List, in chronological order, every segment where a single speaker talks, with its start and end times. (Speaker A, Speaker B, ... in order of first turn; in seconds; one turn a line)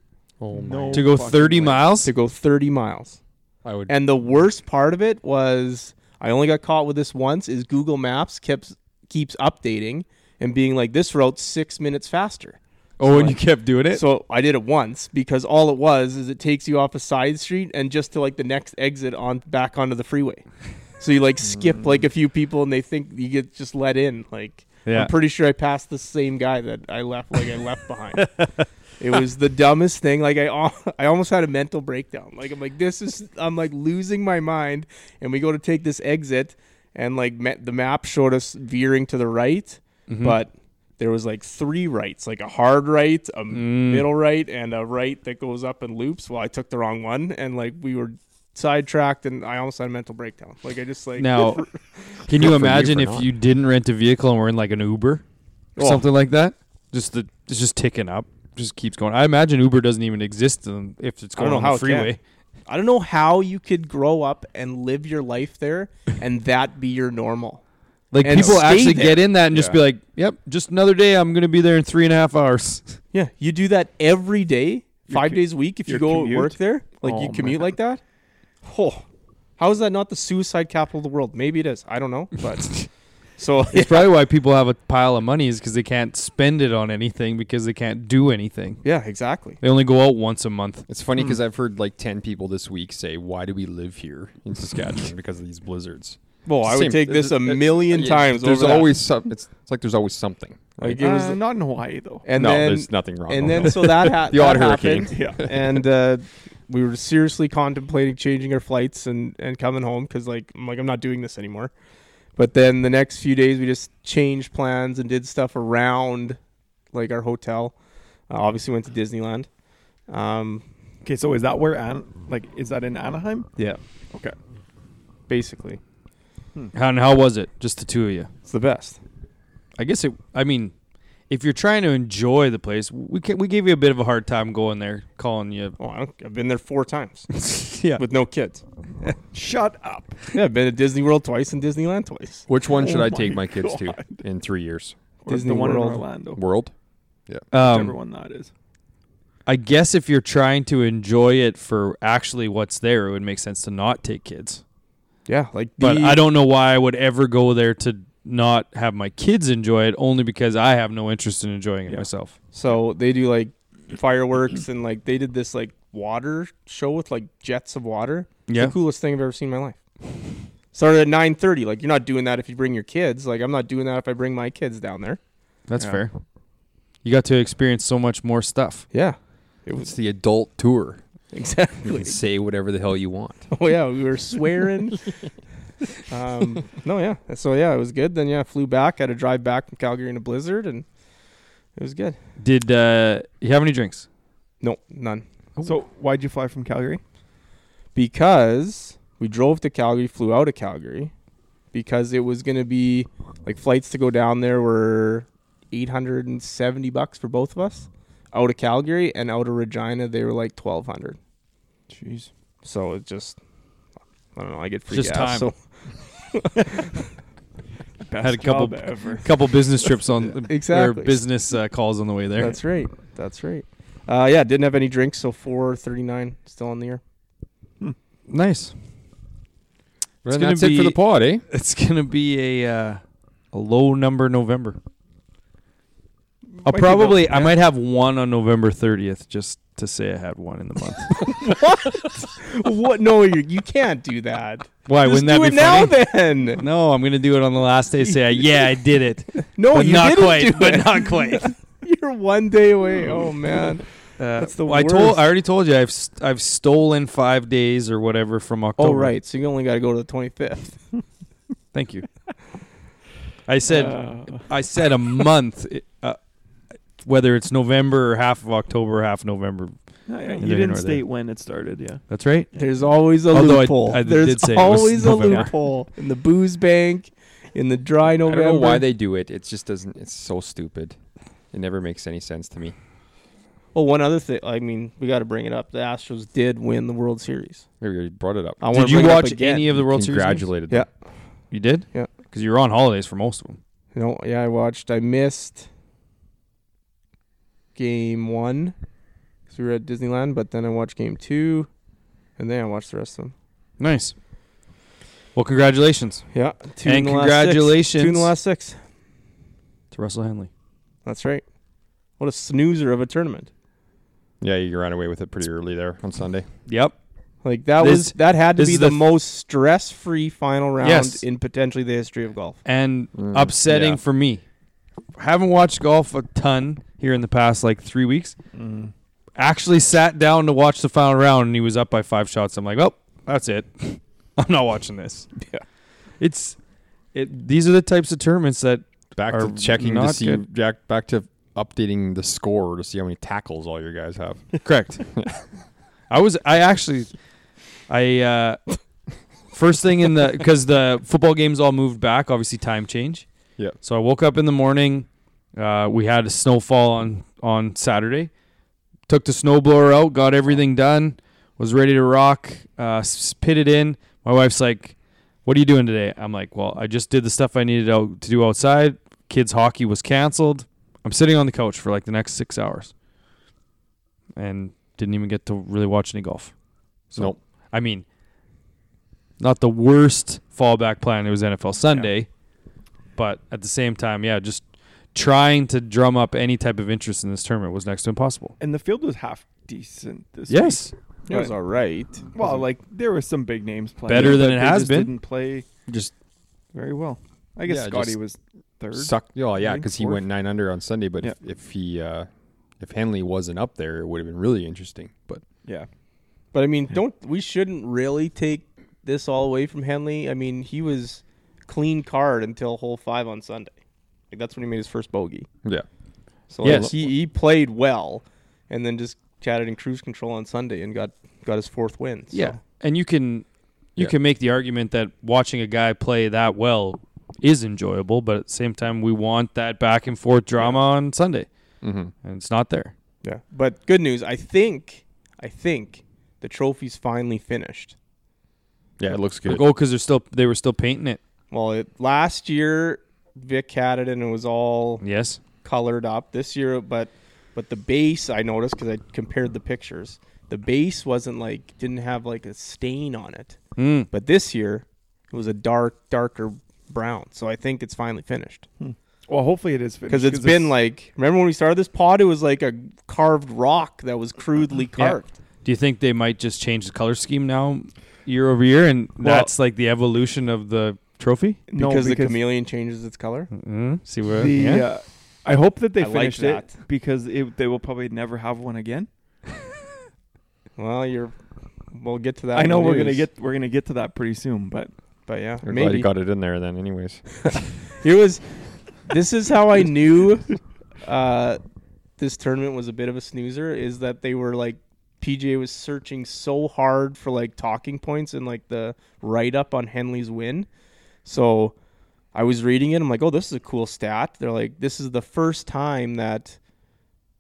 Speaker A: 0.4-1.1
Speaker B: 0.5-1.9
Speaker C: 0.9-2.1
Speaker D: 2.0-3.2
Speaker A: 3.6-4.0
Speaker D: 3.9-13.4
Speaker C: 13.0-14.0
Speaker A: 13.1-13.9
Speaker D: 13.9-20.5
Speaker D: 21.0-28.4
Speaker C: 24.9-25.1
Speaker C: 28.2-28.6
Speaker D: 29.0-52.2
Speaker C: 40.1-40.4
Speaker C: 43.5-44.1
Speaker C: 51.2-51.6
Speaker C: 52.3-55.2
Speaker A: 52.3-53.3
Speaker D: 55.8-56.0
Speaker C: 55.8-62.2
Speaker D: 61.4-62.1
Speaker D: 62.7-67.6
Speaker C: 68.1-73.0
Speaker D: 68.2-69.2
Speaker A: 69.5-69.8
Speaker D: 73.1-78.0
Speaker B: 75.1-77.7
Speaker D: 78.6-79.0
Speaker D: 79.6-84.1
Speaker C: 83.7-88.8
Speaker D: 88.8-89.6
Speaker C: 89.6-90.8
Speaker A: 90.9-101.0
Speaker D: 96.5-98.9
Speaker D: 100.8-101.4
Speaker B: 101.0-102.3
Speaker D: 102.3-111.7
Speaker A: 102.3-105.8
Speaker B: 105.1-105.4
Speaker D: 112.4-116.4
Speaker D: 116.9-117.7
Speaker D: 118.3-119.5
Speaker D: 120.1-120.7
Speaker B: 121.0-123.5
Speaker D: 125.3-125.8
Speaker C: 126.7-128.3
Speaker D: 128.5-129.0
Speaker C: 129.8-130.7
Speaker C: 131.3-135.8
Speaker D: 135.8-137.4
Speaker C: 137.4-138.0
Speaker D: 138.0-138.6
Speaker B: 139.3-140.2
Speaker D: 140.3-142.5
Speaker A: 142.5-145.0
Speaker B: 142.7-144.2
Speaker B: 145.2-146.4
Speaker D: 145.3-146.0
Speaker A: 146.3-146.7
Speaker C: 147.5-147.9
Speaker B: 147.5-148.5
Speaker C: 149.5-154.6
Speaker D: 155.3-156.2
Speaker C: 155.8-162.3
Speaker D: 162.5-169.8
Speaker C: 168.5-168.8
Speaker D: 170.7-175.2
Speaker C: 175.7-176.2
Speaker C: 177.0-178.9
Speaker D: 178.9-179.9
Speaker A: 179.8-181.0
Speaker D: 181.3-182.2
Speaker A: 181.8-183.5
Speaker D: 183.5-185.1
Speaker D: 186.1-190.9
Speaker D: 191.8-192.2
Speaker C: 192.4-194.1
Speaker D: 194.6-195.2
Speaker B: 195.6-197.0
Speaker D: 197.9-201.1
Speaker D: 201.7-211.2
Speaker B: 211.9-212.3
Speaker D: 212.6-213.4
Speaker D: 214.3-217.1
Speaker C: 214.9-215.5
Speaker B: 218.0-219.3
Speaker C: 218.2-222.6
Speaker D: 220.5-221.2
Speaker D: 222.4-227.0
Speaker C: 228.3-228.8
Speaker A: 230.2-231.4
Speaker C: 230.3-233.0
Speaker C: 233.5-234.8
Speaker B: 236.6-237.5
Speaker C: 236.7-241.2
Speaker D: 241.3-246.6
Speaker C: 244.9-246.0
Speaker C: 246.6-251.5
Speaker D: 249.6-255.2
Speaker C: 254.2-259.1
Speaker D: 258.8-260.8
Speaker C: 261.7-262.1
Speaker C: 263.5-266.2
Speaker B: 263.7-264.5
Speaker C: 267.0-269.8
Speaker B: 270.1-272.0
Speaker C: 270.4-271.0
Speaker C: 272.1-272.5
Speaker D: 272.5-278.9
Speaker C: 273.3-275.5
Speaker A: 278.2-281.0
Speaker A: 281.5-282.8
Speaker D: 283.7-287.7
Speaker A: 287.8-290.9
Speaker D: 288.6-289.7
Speaker C: 288.7-290.5
Speaker C: 291.5-293.6
Speaker D: 293.9-295.7
Speaker D: 297.8-298.8
Speaker D: 299.5-301.7
Speaker D: 302.4-303.3
Speaker C: 303.8-304.1
Speaker C: 305.4-306.3
Speaker D: 306.3-308.8
Speaker C: 306.8-308.3
Speaker C: 309.9-310.5
Speaker D: 311.1-311.4
Speaker D: 312.2-313.5
Speaker A: 314.4-316.4
Speaker C: 316.7-316.9
Speaker D: 317.4-322.6
Speaker C: 317.8-319.0
Speaker C: 320.8-321.2
Speaker C: 322.6-324.4
Speaker A: 323.1-324.0
Speaker C: 325.1-328.4
Speaker B: 328.5-328.9
Speaker C: 329.4-335.3
Speaker C: 336.2-336.6
Speaker C: 337.1-340.4
Speaker A: 339.1-344.6
Speaker C: 344.6-345.0
Speaker C: 346.1-347.1
Speaker C: 347.9-348.6
Speaker C: 349.5-353.3
Speaker C: 353.8-358.3
Speaker C: 359.1-372.9
Speaker C: 374.4-376.5
Speaker C: 377.1-378.1
Speaker C: 379.4-382.3
Speaker C: 383.2-388.6
Speaker B: 388.6-391.5
Speaker C: 390.5-390.9
Speaker D: 391.3-392.3
Speaker B: 392.4-395.7
Speaker C: 394.1-395.1
Speaker A: 395.9-396.1
Speaker B: 396.7-400.2
Speaker A: 397.7-398.2
Speaker A: 398.9-402.3
Speaker A: 402.8-405.4
Speaker D: 406.5-413.7
Speaker D: 414.3-415.5
Speaker D: 416.5-422.6
Speaker A: 416.6-416.9
Speaker C: 416.6-416.9
Speaker C: 422.3-431.5
Speaker A: 431.8-432.1
Speaker C: 432.2-432.9
Speaker D: 433.2-438.0
Speaker A: 439.0-439.6
Speaker C: 439.4-441.2
Speaker D: 441.5-445.0
Speaker C: 445.0-445.4
Speaker D: 445.6-453.6
Speaker C: 453.8-454.1
Speaker D: 454.1-458.7
Speaker B: 458.8-460.8
Speaker D: 460.1-465.3
Speaker C: 465.0-471.6
Speaker B: 469.2-469.5
Speaker B: 471.7-472.4
Speaker D: 471.8-473.5
Speaker C: 473.5-474.9
Speaker B: 474.3-479.1
Speaker D: 476.0-476.7
Speaker D: 480.8-481.4
Speaker D: 481.9-483.3
Speaker B: 482.5-484.9
Speaker D: 485.3-486.1
Speaker A: 485.6-487.2
Speaker D: 488.0-488.4
Speaker D: 489.1-491.6
Speaker D: 492.2-500.7
Speaker D: 501.2-501.8
Speaker D: 502.3-506.6